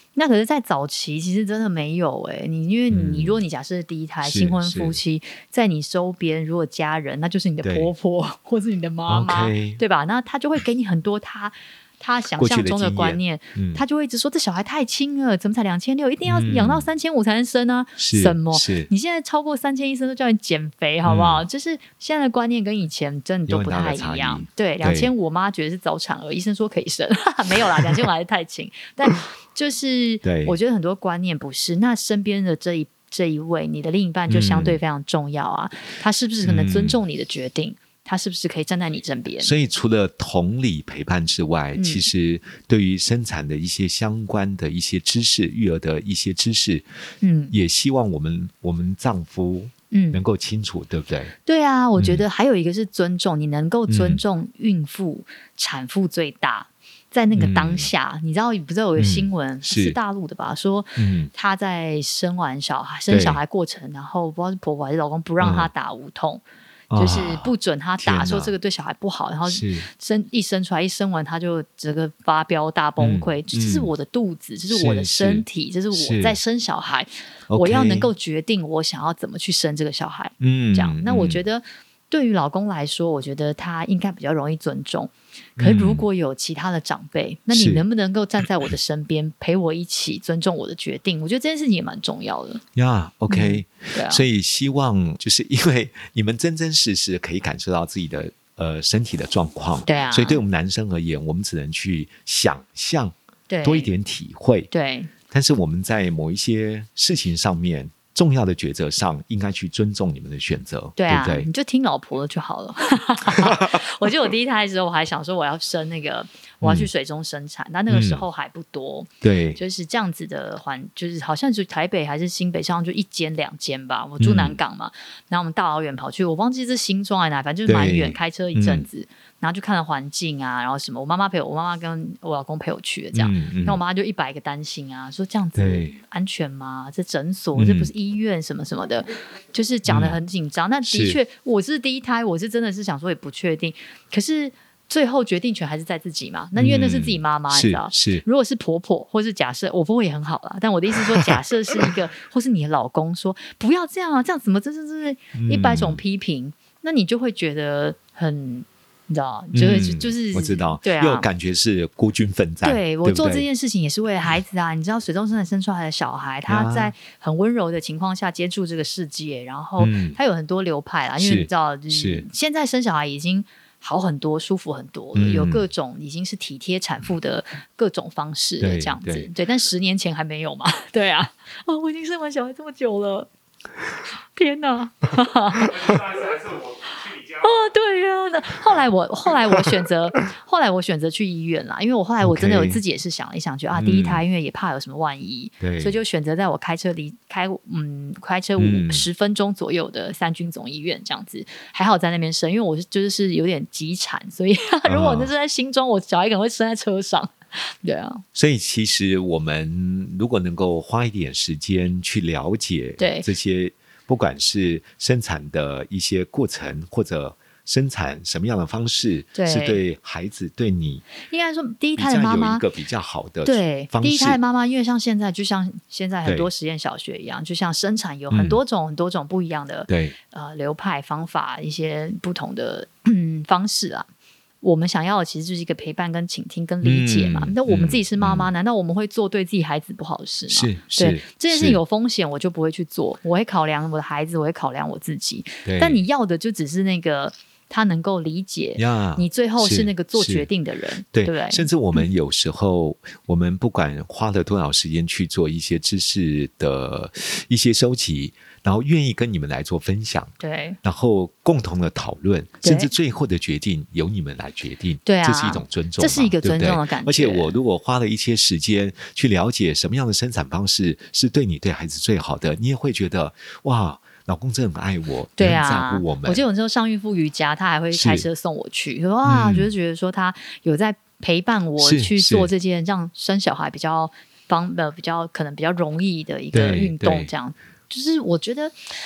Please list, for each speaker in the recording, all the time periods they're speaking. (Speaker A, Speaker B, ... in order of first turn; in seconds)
Speaker A: 0.2-39.5, 41.8-42.0, 47.2-47.5, 49.9-50.2, 51.5-66.4, 66.9-92.6, 93.3-94.2, 99.9-100.4, 103.5-103.9, 104.7-105.1, 111.0-161.3, 162.6-183.3, 184.3-186.6, 187.2-208.2, 213.0-213.3, 219.4-219.8, 221.2-222.6, 223.4-234.1, 234.6-252.1, 260.4-260.8, 262.6-262.9, 265.1-267.6, 275.4-288.7
Speaker B: 2.9-3.4, 4.2-5.0, 7.6-7.9, 9.1-9.8, 12.4-13.8, 16.3-16.9, 18.0-18.9, 21.1-21.4, 23.5-25.1, 30.2-30.6, 34.3-34.8, 36.4-37.0, 39.4-46.9, 47.5-51.3, 52.0-52.2, 53.9-54.2, 57.4-57.9, 59.0-60.0, 61.0-61.3, 63.1-63.4, 65.4-65.7, 66.9-68.5, 69.5-69.9, 73.0-73.9, 74.7-76.4, 77.5-78.1, 80.4-81.4, 85.6-86.1, 87.5-87.8, 92.8-104.7, 105.3-111.5, 113.3-113.8, 116.6-116.9, 117.9-118.2, 119.2-119.6, 124.2-124.6, 127.7-128.9, 133.1-133.8, 135.6-136.0, 137.6-137.9, 139.9-140.2, 140.9-141.2, 146.6-148.2, 155.3-156.0, 159.5-163.5, 166.5-166.9, 169.8-170.2, 171.2-172.3, 175.2-175.6, 178.6-179.3, 192.2-192.8, 193.7-194.2, 195.6-196.0, 198.6-199.1, 204.9-205.3, 208.3-221.1, 222.0-224.4, 228.3-228.6, 229.9-230.2, 236.8-238.5, 240.5-241.8, 245.6-246.0, 248.8-250.5, 251.1-276.4, 277.9-278.3, 279.2-279.7, 281.8-282.5, 286.5-287.3